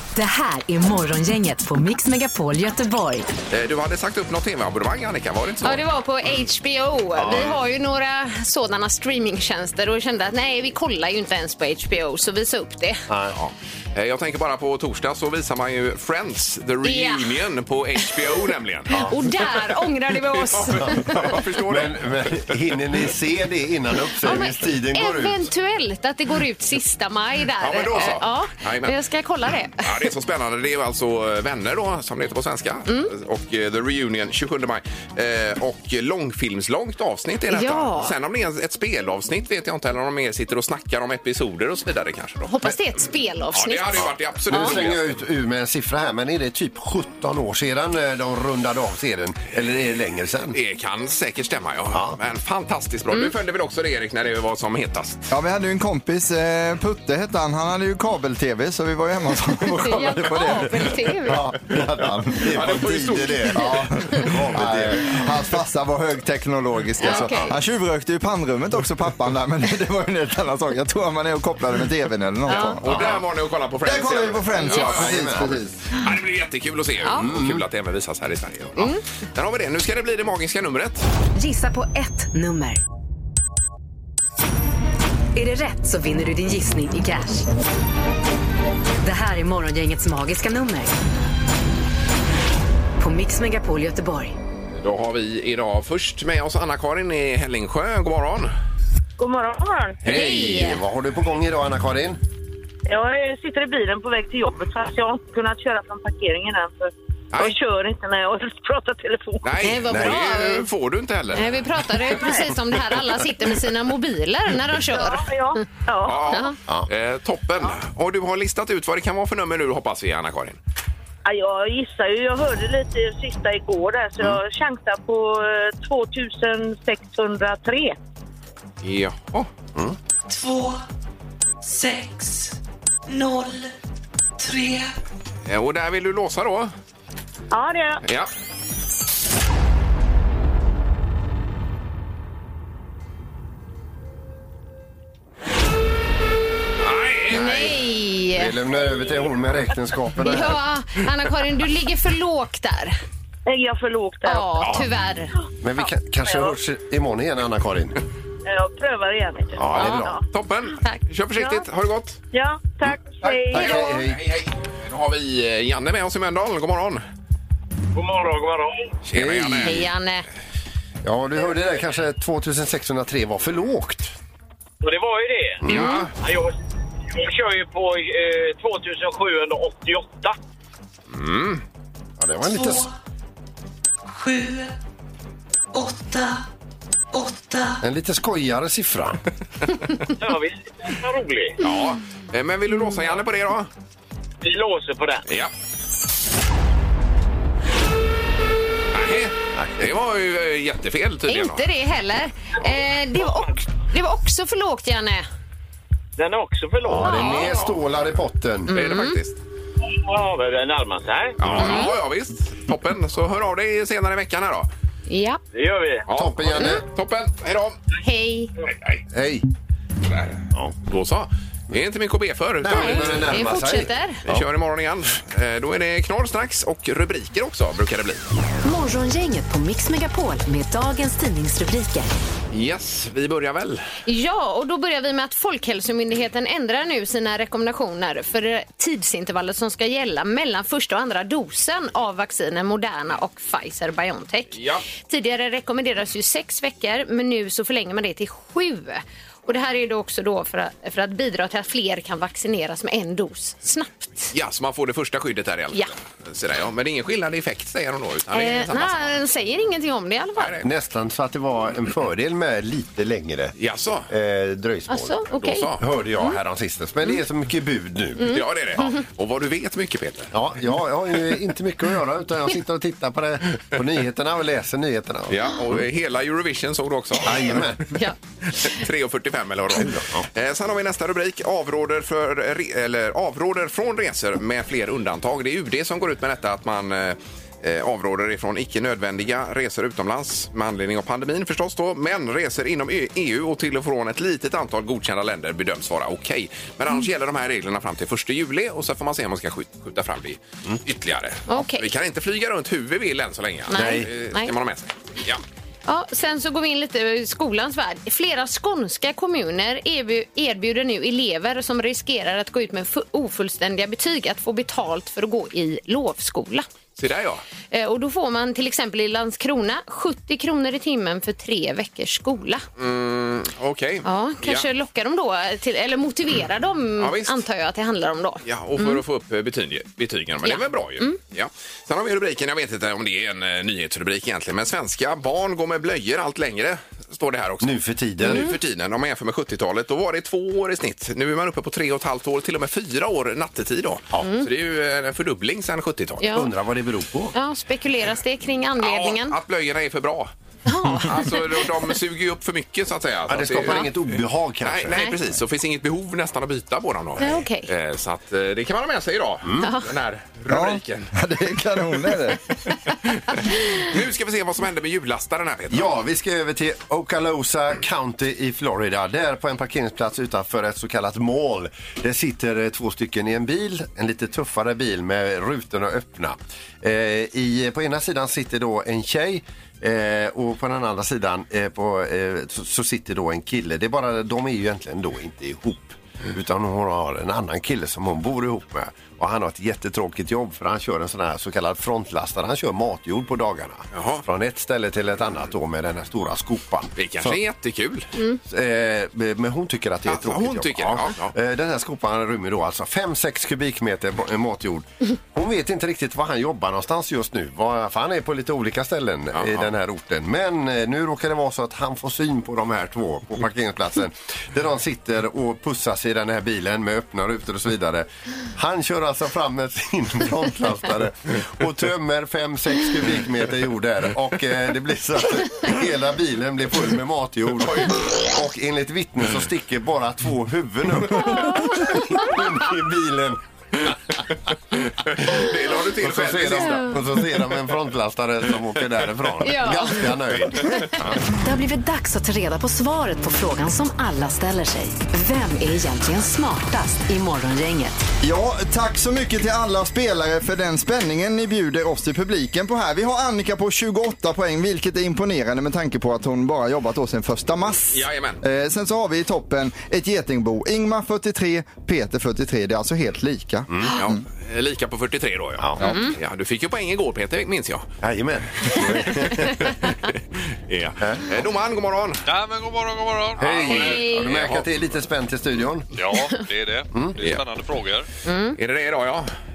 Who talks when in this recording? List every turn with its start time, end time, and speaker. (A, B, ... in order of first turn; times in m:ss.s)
0:00.2-0:03.3 A
0:03.5-0:05.8 B
0:05.6-0:13.0 C
0:07.2-0:07.6 D
0:13.1-0:13.4 D
0:13.3-0:19.1 B
0:16.8-0:17.3 C
0:18.9-0:21.4 C
0:18.9-0:19.2 D
0:20.2-0:22.8 B
0:20.8-0:25.5 D
0:24.2-0:29.9 C
0:27.6-0:29.0 B
0:29.8-0:42.5 B
0:32.9-0:33.1 C
0:37.5-0:38.1 C
0:42.4-0:44.8 C
0:43.5-0:45.1 B
0:44.0-0:50.5 D
0:50.5-0:55.3 B
0:55.3-1:02.6 E
0:59.8-1:01.5 C
1:01.3-1:05.3 D
1:02.4-1:03.7 B
1:03.5-1:13.2 E
1:07.0-1:07.5 C
1:12.5-1:12.8 C
1:12.8-1:15.3 B
1:13.8-1:15.8 E
1:14.7-1:15.6 D
1:15.9-1:21.0 B
1:17.2-1:17.6 D
1:18.8-1:19.0 C
1:21.4-1:22.8 A
1:25.3-1:27.4 A
1:29.0-1:30.9 A
1:33.0-1:34.4 A
1:34.8-1:38.5 B
1:39.2-1:40.0 F
1:40.0-1:42.2 D
1:40.1-1:40.8 C
1:42.9-1:49.4 F
1:49.4-1:51.6 B
1:49.6-1:50.7 C
1:49.9-1:50.2 D
1:51.3-1:55.3 C
1:54.9-1:56.3 F
1:56.0-2:00.6 B
1:56.2-1:56.6 C
2:01.2-2:08.0 F
2:08.8-2:09.5 B
2:10.3-2:10.8 G
2:11.6-2:13.7 G
2:14.4-2:14.9 G
2:15.5-2:16.7 B
2:17.5-2:18.0 F
2:18.0-2:18.3 B
2:26.8-2:27.5 B
2:27.3-2:28.5 C
2:27.4-2:27.7 D
2:28.3-2:30.6 D
2:30.2-2:33.0 C
2:33.5-2:34.8 F
2:34.2-2:35.3 C
2:35.6-2:38.0 D
2:36.3-2:36.5 F
2:38.4-2:40.2 F
2:39.6-2:40.2 D
2:39.8-2:40.0 C
2:40.3-2:42.2 B
2:42.3-2:44.0 F
2:43.2-2:44.2 D
2:43.5-2:47.0 B
2:47.9-2:49.0 H
2:49.0-2:49.8 B
2:49.1-2:49.8 D
2:49.6-2:50.2 C
2:51.0-2:54.1 D
2:54.8-2:55.6 H
2:55.6-2:56.1 B
2:55.6-2:56.0 C
2:56.2-2:56.5 H
2:57.1-3:00.4 H
3:01.1-3:01.6 B
3:02.2-3:02.9 D
3:02.4-3:02.9 G
3:04.0-3:04.8 G
3:05.7-3:06.5 G
3:07.1-3:07.8 G
3:07.8-3:09.2 D
3:10.2-3:11.6 H
3:11.6-3:13.7 B
3:14.4-3:15.2 H
3:15.3-3:15.5 B
3:18.9-3:21.6 B
3:19.5-3:19.9 D
3:21.3-3:25.2 C
3:26.2-3:27.7 H
3:26.8-3:28.7 D
3:27.0-3:27.6 C
3:28.7-3:29.2 C
3:28.7-3:29.4 B
3:29.8-3:31.4 H
3:31.4-3:34.7 B
3:31.4-3:31.8 D
3:31.6-3:31.9 C
3:35.1-3:35.4 C
3:35.5-3:36.1 H
3:36.1-3:37.8 B
3:36.1-3:36.8 D
3:38.0-3:38.5 C
3:39.1-3:39.4 D
3:40.1-3:43.4 B
3:42.6-3:44.4 D
3:42.7-3:44.2 C
3:44.2-3:48.2 B
3:48.6-3:52.1 A
3:52.5-3:53.9 B
3:54.0-4:14.3 C
4:04.5-4:04.8 B
4:14.3-4:19.2 B
4:18.3-4:20.6 C
4:20.4-4:20.6 B
4:20.6-4:23.5 D
4:23.6-4:24.1 B
4:24.1-4:25.2 D
4:24.9-4:26.4 C
4:25.3-4:25.8 B
4:25.8-4:29.0 D
4:28.2-4:29.0 C
4:28.3-4:30.3 B
4:30.3-4:35.6 D
4:35.3-4:37.7 B
4:37.2-4:37.8 D
4:38.6-5:05.4 B
4:39.8-4:40.2 D
5:01.5-5:01.9 C
5:03.7-5:04.5 C
5:03.7-5:04.1 D
5:05.9-5:16.7 C
5:17.0-5:17.4 B
5:17.7-5:22.6 C
5:22.8-5:24.7 B
5:24.0-5:29.0 C
5:27.0-5:27.4 B
5:28.4-5:46.2 B
5:30.4-5:31.2 C
5:37.6-5:38.6 D
5:38.2-5:38.5 C
5:44.2-5:44.5 C
5:46.2-5:46.5 C
5:46.3-5:47.3 D
5:47.3-5:49.4 C
5:48.8-5:50.3 B
5:50.7-5:51.6 C
5:50.9-5:53.9 B
5:53.3-5:55.1 D
5:54.6-6:01.1 B
5:57.2-5:57.7 C
5:59.4-5:59.7 D
6:00.5-6:02.4 E
6:02.7-6:05.9 B
6:03.3-6:03.6 C
6:05.7-6:37.4 D
6:33.9-6:34.2 B
6:37.0-6:38.1 B
6:38.5-7:14.2 D
6:40.0-6:41.3 B
6:49.3-6:49.7 B
7:07.6-7:07.9 B
7:11.2-7:12.3 C
7:15.0-7:17.0 B
7:15.8-7:21.4 D
7:19.4-7:20.0 C
7:20.6-7:20.9 C
7:21.3-7:28.0 A
7:28.2-7:44.0 E
7:37.9-7:38.4 B
7:43.7-7:43.9 D
7:44.0-7:47.9 B
7:45.8-7:46.2 C
7:48.0-7:49.9 D
7:48.7-7:49.1 B
7:49.6-7:52.2 B
7:51.0-7:51.4 D
7:52.2-7:54.0 I
7:53.4-7:55.9 D
7:53.6-7:54.3 C
7:54.2-7:54.6 B
7:55.9-7:58.1 I
7:58.2-7:58.6 C
7:58.6-7:59.3 B